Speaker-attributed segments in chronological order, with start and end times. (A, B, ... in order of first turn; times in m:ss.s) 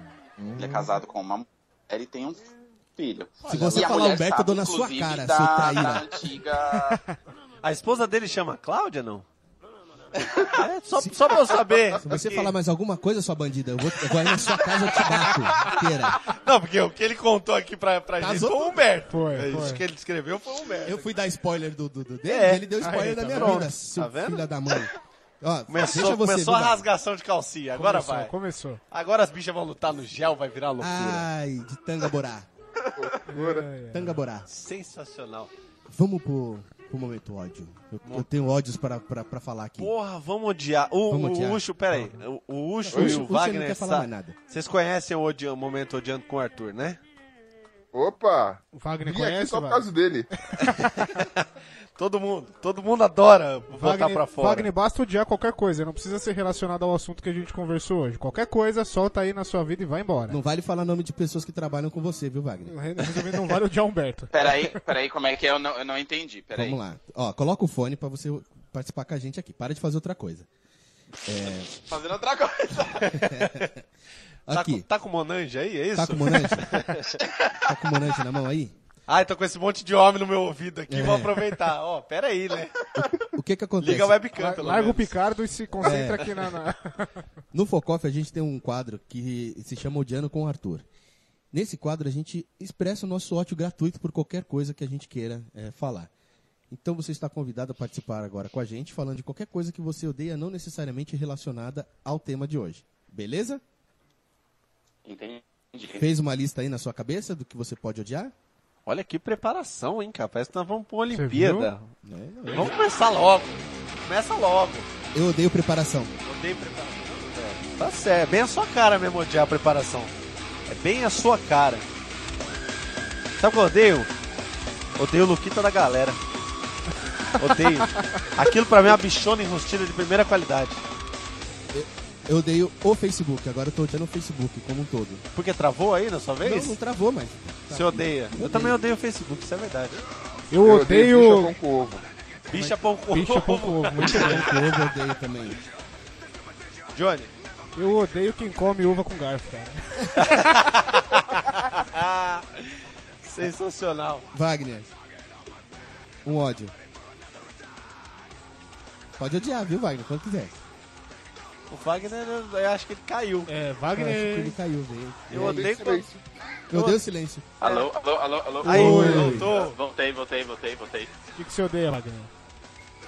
0:00.4-0:00.9 A
0:00.6-0:07.0 B
0:03.4-0:04.0 C
0:03.5-0:06.1 D
0:06.7-0:07.2 E
0:07.6-0:09.3 C
0:10.5-0:12.5 C
0:11.0-0:11.4 D
0:12.0-0:16.2 D
0:15.0-0:15.5 C
0:16.3-0:21.1 C
0:18.2-0:18.9 D
0:19.1-0:19.8 E
0:20.8-0:26.9 D
0:22.3-0:24.4 C
0:22.8-0:23.7 E
0:25.7-0:28.3 C
0:27.8-0:28.8 E
0:28.9-0:31.3 C
0:30.8-0:32.5 D
0:33.0-0:33.7 A
0:33.3-0:34.2 E
0:33.9-0:34.5 D
0:34.5-0:35.5 C
0:35.9-0:39.9 D
0:39.8-0:47.0 C
0:41.1-0:41.6 D
0:41.9-0:42.2 E
0:42.8-0:44.4 D
0:42.9-0:43.2 A
0:47.9-0:50.3 A
0:48.7-0:49.9 E
0:50.5-0:51.3 E
0:51.0-0:51.4 C
0:52.0-0:54.7 C
0:53.7-1:00.4 E
1:00.3-1:03.4 D
1:02.7-1:04.8 E
1:04.3-1:06.8 B
1:06.5-1:10.5 D
1:11.2-1:11.8 D
1:11.8-1:13.3 B
1:13.1-1:13.8 D
1:14.5-1:14.9 D
1:14.5-1:17.2 C
1:16.0-1:16.8 D
1:17.2-1:17.7 B
1:17.6-1:18.7 D
1:19.1-1:22.8 C
1:20.9-1:21.5 D
1:23.0-1:24.2 D
1:23.8-1:25.2 C
1:24.4-1:27.2 E
1:25.8-1:26.3 D
1:27.5-1:30.8 D
1:31.5-1:36.1 D
1:36.7-1:43.6 D
1:45.0-1:46.0 B
1:46.0-1:48.3 D
1:48.9-1:51.9 C
1:51.1-1:51.7 E
1:52.0-1:52.8 D
1:52.5-1:54.9 C
1:55.1-1:56.1 D
1:56.2-2:00.1 C
2:00.7-2:01.9 C
2:03.4-2:04.1 C
2:05.0-2:06.2 C
2:07.4-2:10.8 C
2:08.0-2:08.2 E
2:11.7-2:15.2 D
2:15.4-2:16.8 C
2:16.4-2:18.8 D
2:17.7-2:20.0 C
2:20.5-2:21.5 E
2:20.6-2:22.0 A
2:22.5-2:24.7 C
2:22.5-2:24.6 E
2:24.0-2:25.6 D
2:26.9-2:27.3 C
2:27.8-2:30.8 E
2:30.2-2:34.3 C
2:34.3-2:34.9 D
2:36.2-2:36.7 D
2:39.2-2:40.6 D
2:41.7-2:43.5 C
2:43.5-2:44.6 E
2:43.9-2:45.7 D
2:45.3-2:46.1 C
2:45.3-2:46.2 A
2:46.7-2:47.5 D
2:46.7-2:47.0 C
2:47.6-2:51.1 B
2:48.6-2:49.8 C
2:48.6-2:49.4 E
2:48.6-2:49.5 D
2:51.4-2:52.3 E